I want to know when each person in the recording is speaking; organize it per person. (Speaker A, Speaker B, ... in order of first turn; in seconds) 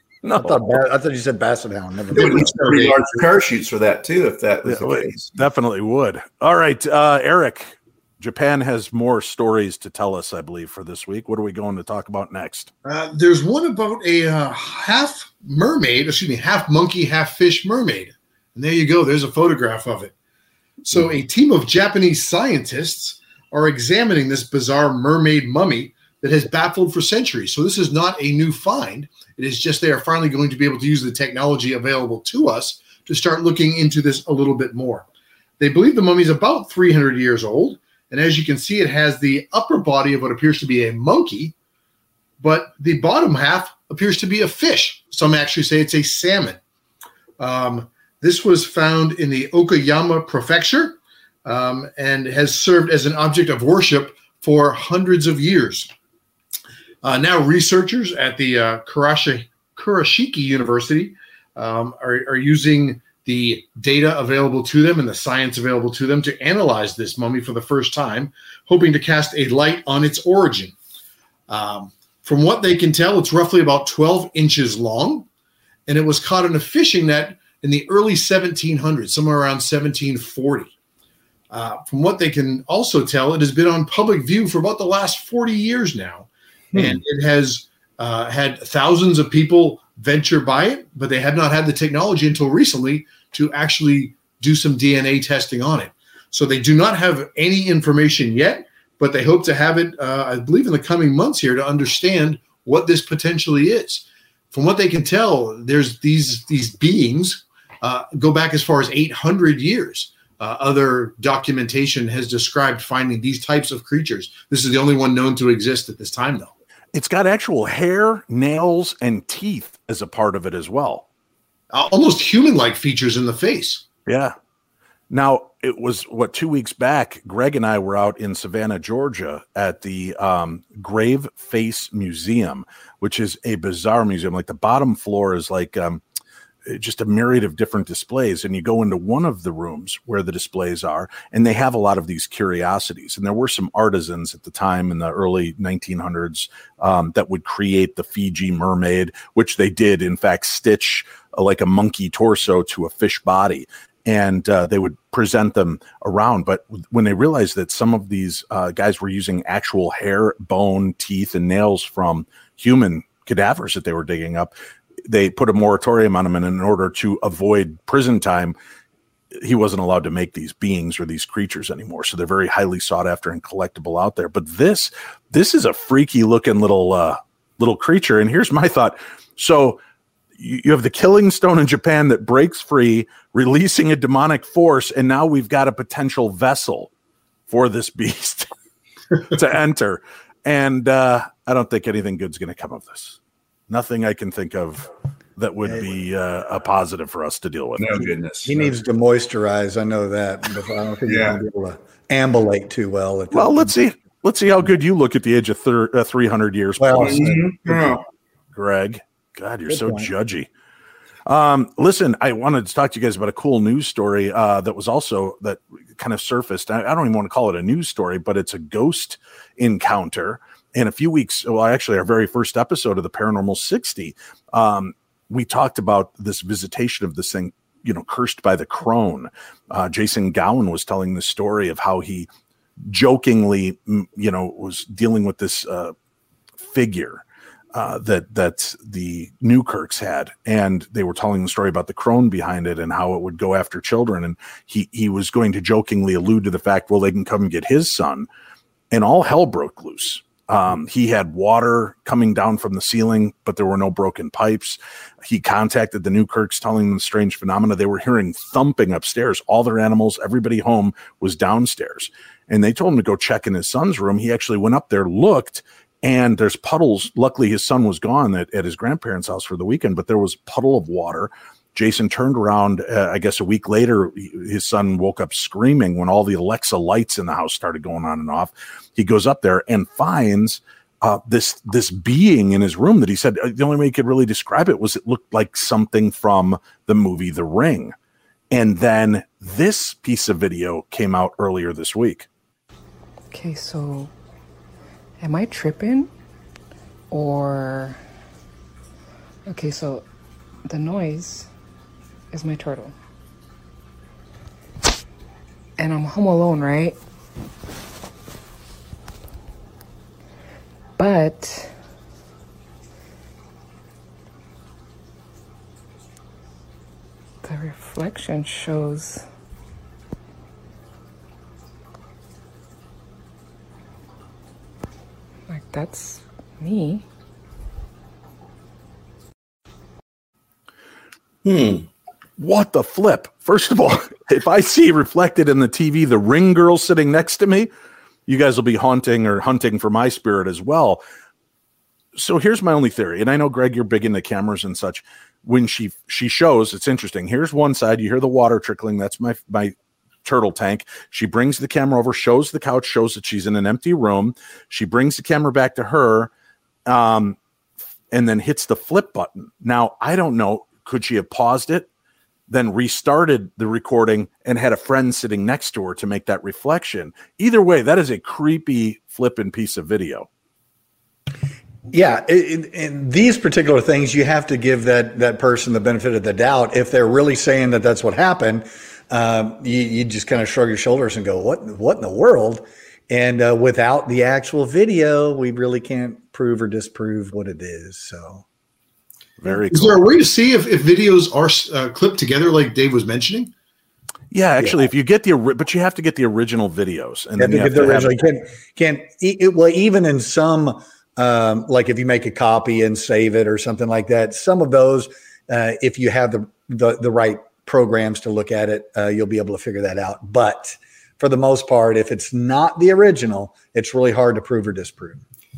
Speaker A: 0.2-0.6, 4.6-12.7, 116.9-121.0, 124.1-124.3, 125.1-136.0, 136.7-164.5, 165.1-168.5, 169.3-179.8, 180.4-186.9, 187.5-188.5, 189.3-198.0, 203.3-207.3, 208.5-210.5, 211.2-232.3, 232.8-235.9, 236.6-237.2, 237.7-248.3, 248.9-287.9, 288.5-292.3, 332.4-337.7, 338.3-341.0, 342.1-356.3, 356.9-357.4, 358.1-361.9, 362.5-370.3, 389.4-390.0, 394.3-398.2
Speaker B: 0.3-2.9, 198.4-203.7, 206.8-208.0, 209.7-210.1, 371.9-388.4, 397.4-415.2
Speaker C: 2.1-5.3, 86.7-87.0, 197.8-198.7, 201.1-201.4, 207.0-208.0, 331.4-331.9
Speaker D: 2.3-2.9, 12.8-20.1, 20.9-35.0, 35.6-41.5, 42.4-46.6, 47.4-55.9, 57.0-70.8, 71.5-75.3, 75.9-80.7, 81.5-116.5, 121.7-123.8, 389.7-393.5
Speaker E: 293.3-294.1, 295.2-296.1, 297.1-298.0, 299.5-300.0, 300.6-301.5, 302.3-302.9, 305.8-307.0, 311.0-311.7, 317.4-319.2, 325.5-327.0